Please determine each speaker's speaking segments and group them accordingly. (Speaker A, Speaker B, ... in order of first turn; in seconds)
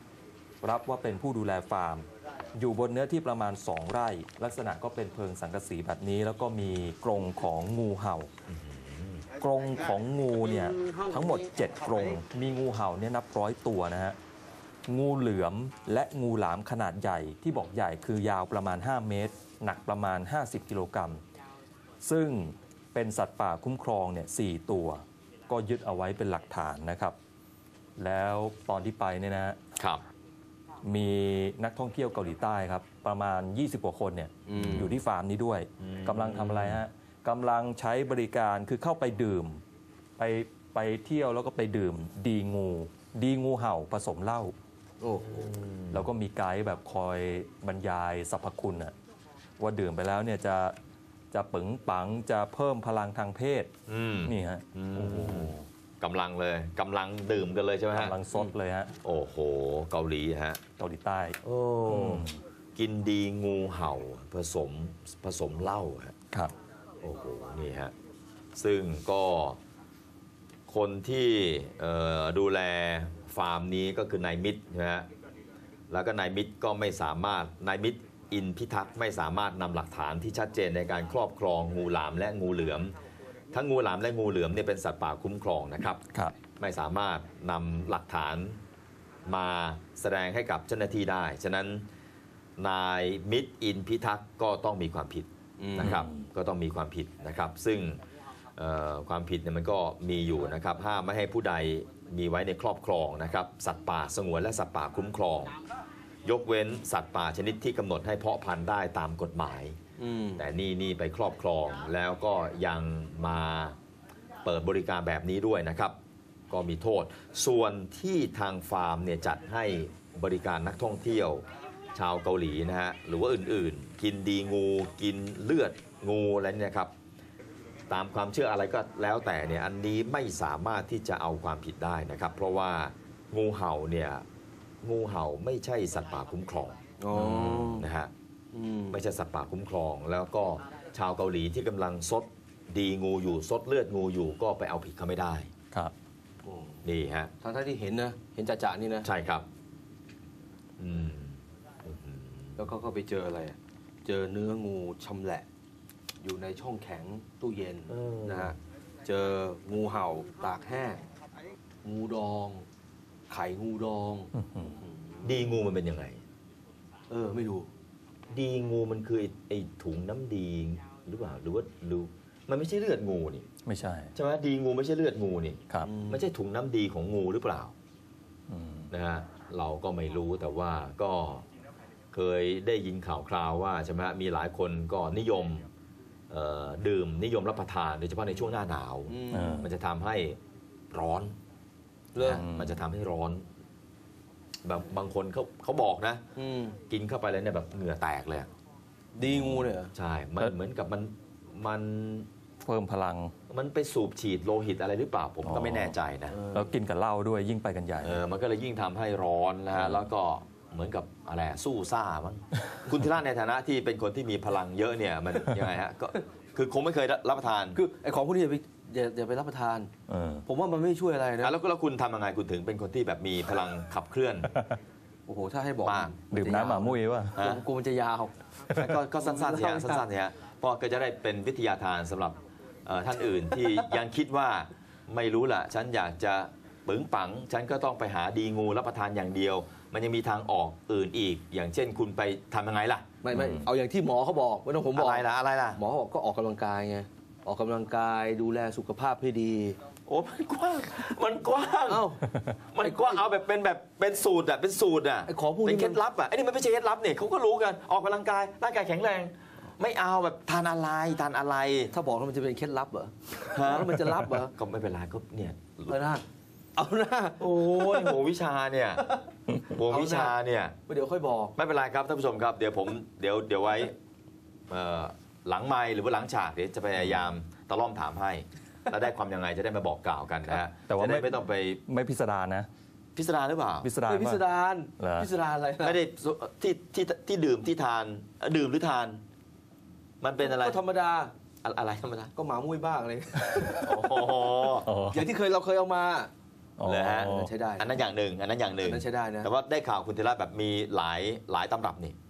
Speaker A: 0.6-8.3, 9.4-14.2, 14.9-21.2, 22.0-27.1, 28.0-29.6, 30.8-39.6, 40.2-44.5, 45.9-48.9, 49.6-50.8, 51.3-53.7, 54.2-55.7, 57.9-58.9, 60.8-62.4, 95.8-96.2, 164.3-164.8, 173.6-174.1, 178.5-178.9, 189.3-189.7, 192.2-192.8, 199.2-199.8, 202.6-203.3, 205.4-205.9, 206.5-208.2, 220.1-220.4, 226.3-227.4, 243.3-243.6, 280.5-281.3, 281.9-282.7, 283.8-284.4, 285.0-285.3, 294.8-295.2, 296.8-297.5
Speaker B: 8.5-9.3, 29.8-30.0, 35.8-36.8, 45.2-46.1, 53.9-58.2, 59.0-60.6, 61.4-66.1, 67.0-67.9, 68.5-69.6, 70.7-75.1, 75.9-83.0, 83.5-86.0, 86.6-88.6, 89.2-91.8, 92.6-98.0, 98.5-105.5, 106.2-109.8, 110.3-113.7, 114.4-116.0, 116.5-126.9, 127.9-134.2, 134.8-138.1, 138.9-145.5, 146.8-147.3, 149.0-149.5, 150.8-152.7, 157.9-158.5, 165.2-166.2, 168.3-173.4, 174.1-177.7, 178.9-181.4, 182.1-185.7, 186.3-190.4, 190.9-191.3, 192.2-193.4, 194.6-196.2, 196.9-198.5, 199.9-202.3, 203.5-206.4, 208.0-217.8, 221.4-224.5, 225.8-226.1, 227.3-227.6, 228.7-243.1, 244.9-245.8, 250.1-261.9, 263.5-266.1, 267.4-270.7, 271.5-273.9, 274.7-281.8, 283.1-283.9, 285.8-289.2, 290.2-290.8, 291.6-292.3, 293.8-294.9, 296.8-302.1
Speaker C: 34.5-35.0, 45.0-45.5, 95.6-96.0, 110.0-110.4, 137.0-137.9, 138.5-139.0, 146.4-146.8, 147.4-149.1, 152.6-155.4, 156.2-161.1, 161.8-162.7, 163.3-165.4, 167.1-167.7, 175.8-176.2, 189.1-189.6, 192.1-192.4, 196.3-196.8, 199.2-199.9, 206.3-206.8, 217.7-219.9, 220.4-221.5, 225.3-228.4, 228.9-230.0, 243.2-249.8, 251.9-252.2, 252.8-253.2, 255.3-256.0, 261.9-264.5, 265.9-266.2, 266.8-268.2, 269.9-270.3, 270.9-271.5, 284.0-285.9, 290.4-291.3, 292.3-294.3, 295.0-296.3, 297.2-298.0, 298.8-299.5